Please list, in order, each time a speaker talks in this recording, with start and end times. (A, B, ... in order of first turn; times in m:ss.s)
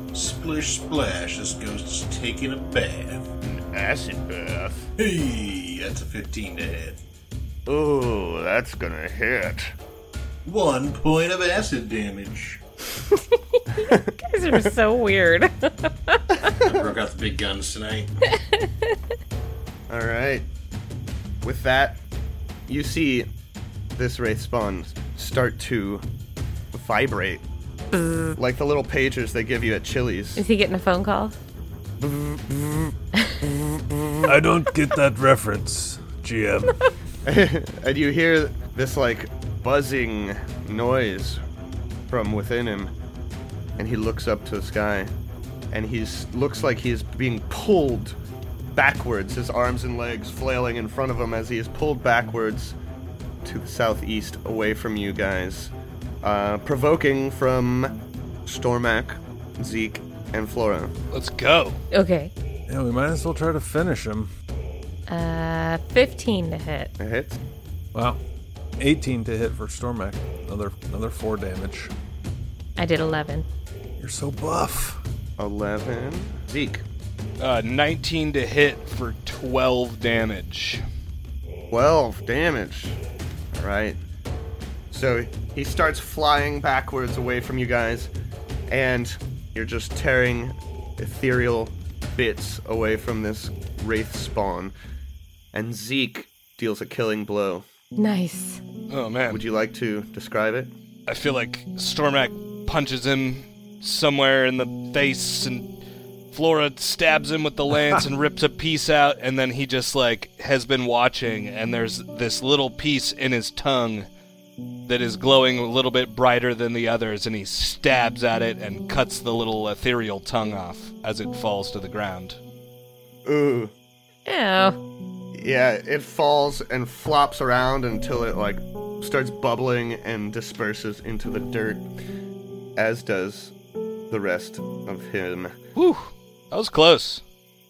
0:00.1-0:03.3 A
0:03.4-0:04.9 B
0:05.0-0:07.0 A
0:07.7-0:09.7 B
0:10.4-0:12.6 A
0:13.0-0:16.4 C
0:13.8-0:14.1 B
0:16.5-0:18.2 A
0:18.4-0:19.0 C
0:19.9-0:20.5 B
0:21.4-0:22.0 B
0:22.7-0:23.3 B
0:24.0-0:26.0 B
0:26.7-0:27.4 B
0:27.9-0:28.4 C
0:28.4-0:30.5 B
0:30.4-0:31.3 C
0:32.0-0:34.4 B
0:34.2-0:36.8 D
0:37.2-0:41.4 B
0:42.1-0:42.9 B
0:43.8-0:45.1 B
0:45.7-0:48.2 B
0:48.7-0:52.8 B
0:53.4-1:00.9 B
1:01.1-1:01.8 E
1:01.9-1:02.3 C
1:02.7-1:04.3 D
1:05.1-1:06.9 C
1:07.0-1:07.4 B
1:07.9-1:08.2 D
1:08.8-1:11.9 D
1:12.8-1:13.5 C
1:14.0-1:15.0 D
1:15.4-1:16.8 B
1:17.4-1:20.8 E
1:21.7-1:23.0 B
1:23.5-1:24.0 B
1:24.9-1:28.1 B
1:28.7-1:34.7 B
1:35.5-1:37.7 B
1:38.0-1:38.6 C
1:38.9-1:39.4 E
1:39.3-1:40.7 B
1:41.1-1:45.8 E
1:46.3-1:54.1 E
1:54.9-2:02.4 E
2:03.3-2:03.7 B
2:04.3-2:04.8 C
2:05.3-2:11.9 B
2:12.8-2:13.5 B
2:14.1-2:15.6 B
2:15.8-2:17.2 E